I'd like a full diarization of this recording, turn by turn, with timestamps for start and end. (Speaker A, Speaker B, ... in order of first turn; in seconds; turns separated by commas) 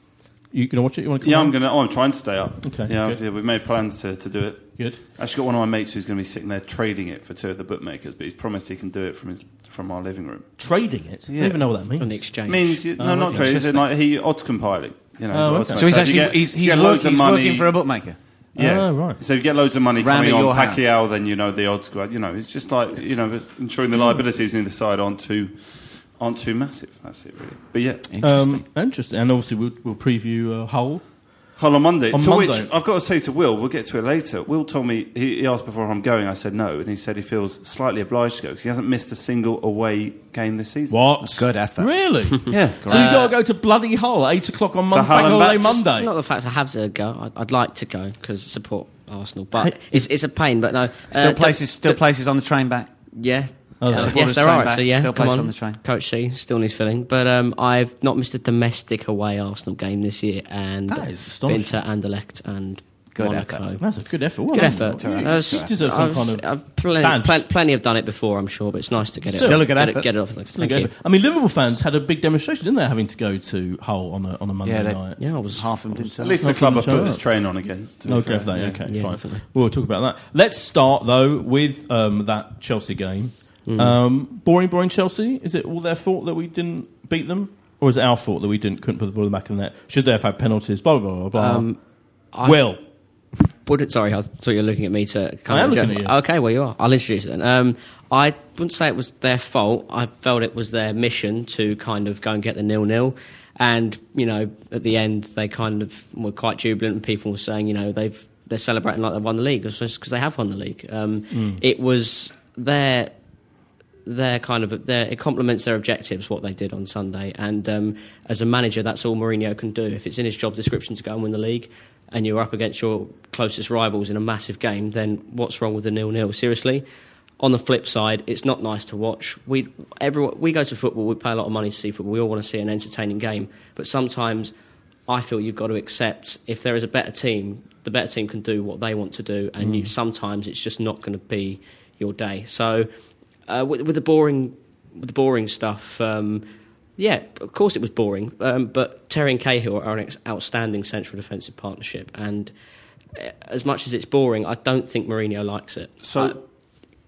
Speaker A: 0.5-1.5, Speaker B: 1.2-10.6, Speaker A: 2.6-3.2, Speaker A: 10.6-12.1, Speaker B: 11.3-11.6, Speaker C: 12.0-12.8, Speaker B: 12.4-17.7, Speaker A: 13.0-13.7, Speaker D: 13.3-13.8, Speaker A: 15.3-16.2, Speaker D: 15.8-18.2, Speaker B: 18.6-25.6, Speaker A: 18.6-19.2, Speaker D: 20.0-20.9, Speaker B: 26.2-28.1, Speaker D: 28.1-28.6, Speaker A: 28.2-31.0, Speaker B: 31.6-41.0, Speaker A: 32.1-32.7, Speaker A: 40.9-46.1, Speaker D: 41.2-41.9, Speaker B: 42.5-43.0, Speaker D: 42.8-43.3, Speaker C: 42.9-43.3, Speaker B: 44.9-45.8, Speaker C: 45.1-52.0, Speaker A: 49.5-50.1, Speaker D: 51.1-52.9, Speaker C: 53.1-63.8, Speaker A: 53.8-54.2, Speaker D: 53.9-55.8, Speaker A: 60.9-61.8, Speaker D: 63.1-63.6, Speaker A: 63.8-67.5, Speaker C: 64.5-70.9, Speaker D: 65.0-65.7, Speaker A: 69.3-69.8, Speaker D: 69.4-70.1, Speaker A: 70.5-75.2, Speaker D: 74.6-76.4, Speaker C: 75.2-76.1, Speaker B: 76.2-78.8, Speaker A: 76.4-77.2, Speaker A: 78.0-91.7, Speaker C: 78.8-79.4, Speaker C: 83.7-84.0, Speaker C: 91.3-91.8, Speaker C: 92.3-92.6, Speaker A: 92.4-92.8, Speaker C: 93.6-113.2, Speaker A: 95.5-96.2, Speaker A: 111.3-111.6, Speaker C: 114.0-126.8, Speaker C: 127.4-134.5, Speaker C: 135.1-142.9, Speaker A: 139.6-139.9, Speaker C: 143.5-146.4, Speaker C: 147.0-152.5, Speaker C: 153.2-156.4, Speaker B: 156.0-156.4